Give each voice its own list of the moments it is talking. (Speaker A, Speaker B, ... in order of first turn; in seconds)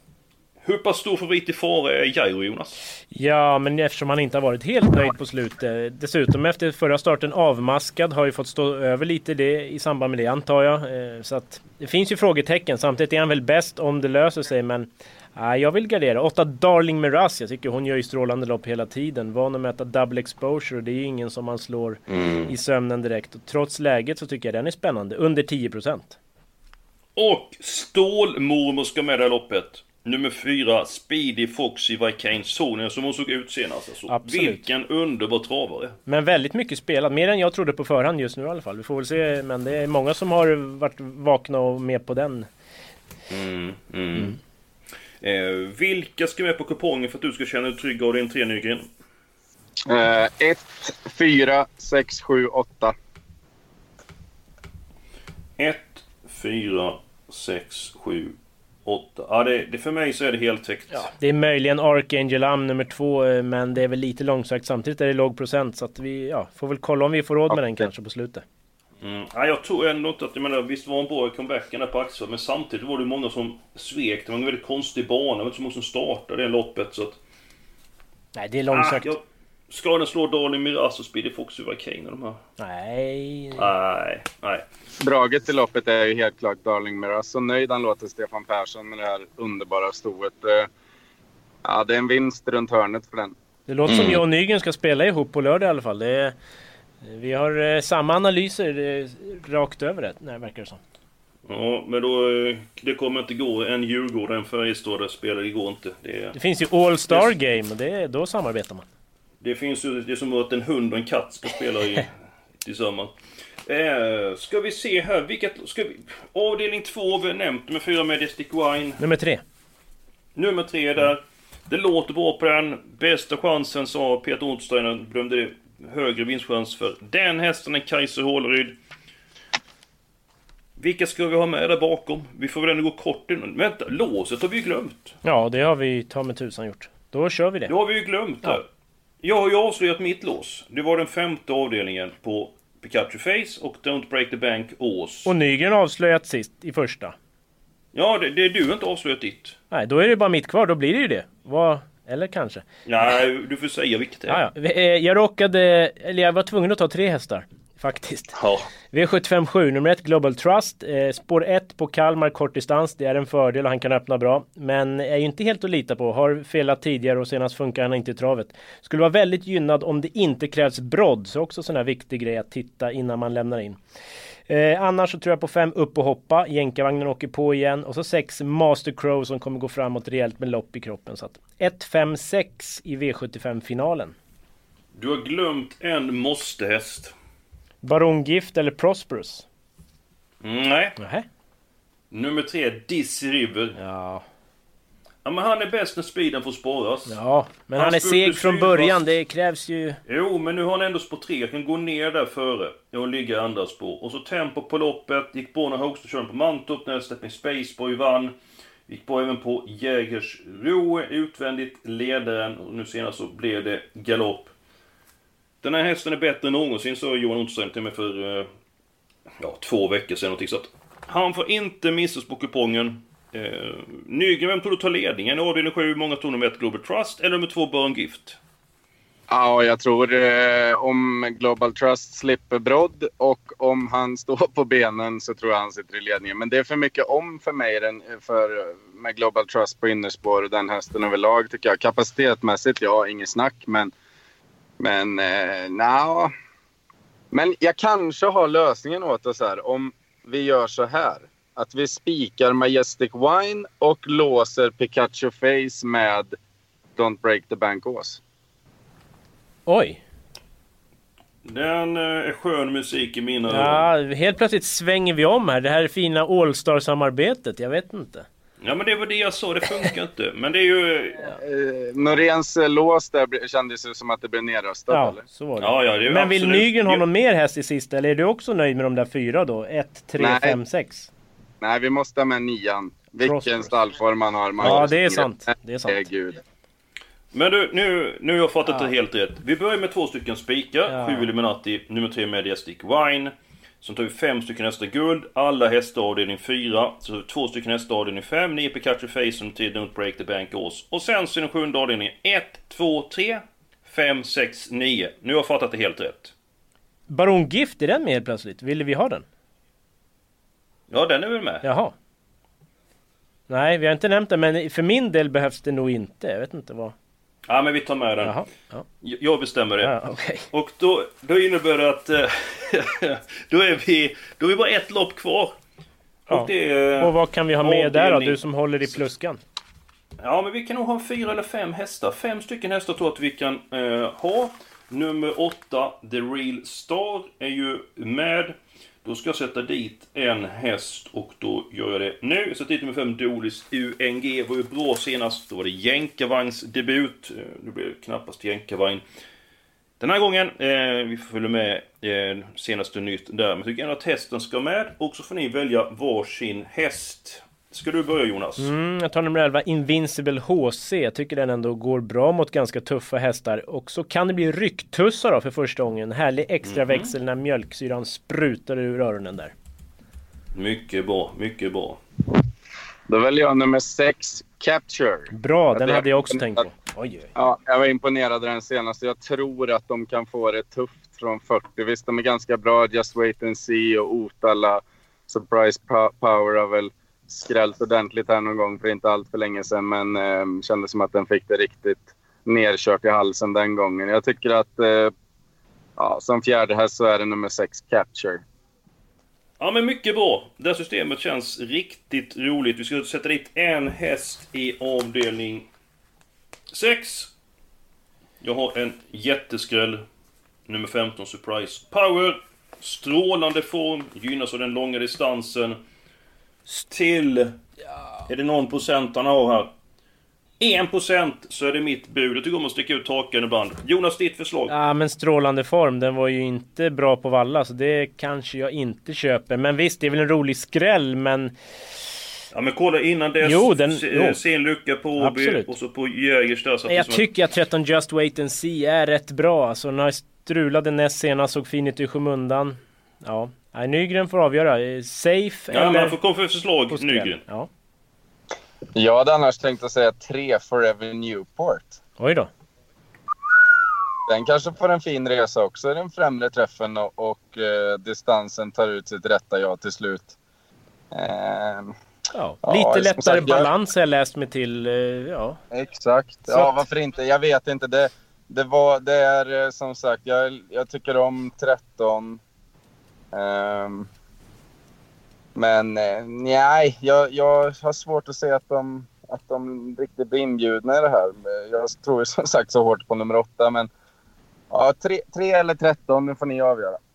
Speaker A: 0.6-2.8, 22.1-22.5, 27.2-36.0, 43.3-44.4, 45.2-48.9, 55.6-61.1, 69.0-77.2, 78.7-82.4, 83.5-84.7, 93.9-94.2, 101.5-106.4, 109.4-112.1, 112.6-113.1, 113.7-119.0, 120.4-128.8, 130.8-135.2, 137.7-138.7, 139.2-145.3, 147.9-149.6, 152.9-154.4, 158.3-158.7, 184.9-187.1, 190.4-191.0, 192.1-193.8, 195.2-197.2, 197.8-199.0, 200.1-208.3, 208.9-214.5, 215.6-218.5, 219.4-228.4, 261.4-263.9, 268.6-271.3, 275.6-277.0, 287.3-306.3, 310.9-311.6, 317.5-318.4, 319.0-319.9, 320.5-325.6, 326.3-329.0, 330.2-349.0, 350.0-358.7, 366.6-367.1, 370.5-372.0, 399.6-405.7, 406.7-407.3, 408.4-410.0, 410.7-415.8, 416.7-417.6, 418.3-419.7, 420.6-424.7, 432.5-437.3, 445.7-447.4
Speaker B: 3.1-26.2, 34.1-34.6, 36.1-42.5, 60.9-68.4, 78.3-79.1, 82.6-83.7, 93.7-96.3, 97.0-100.8, 106.3-108.8, 119.0-119.4, 135.2-137.7, 145.3-147.2, 149.7-152.7, 154.3-158.3, 158.9-173.8, 174.5-184.2, 187.8-189.5, 191.0-191.3, 193.8-194.2, 197.1-200.0, 259.7-260.0, 263.5-268.3, 274.9-281.1, 283.2-283.8, 284.6-286.1, 290.9-291.3, 307.1-309.3, 311.6-311.9, 313.5-316.9, 318.2-318.9, 319.8-320.5, 326.3-329.4, 358.6-369.5, 375.3-377.3, 424.7-431.5, 433.4-434.4, 435.2-435.7, 436.9-446.1, 446.9-447.7, 452.2-452.5, 462.3-465.6, 466.5-466.8
Speaker C: 49.9-53.0, 85.0-90.7, 91.7-93.3, 229.3-243.9, 244.8-246.3, 247.3-256.4, 257.0-258.2, 271.3-275.2, 280.2-280.6, 281.6-285.3, 285.9-286.4, 373.1-376.6, 377.4-395.1, 396.0-398.4, 448.9-452.0, 454.3-460.3, 461.1-461.9, 462.6-463.7, 465.7-472.4, 473.3-474.1, 475.6-483.9, 484.7-487.0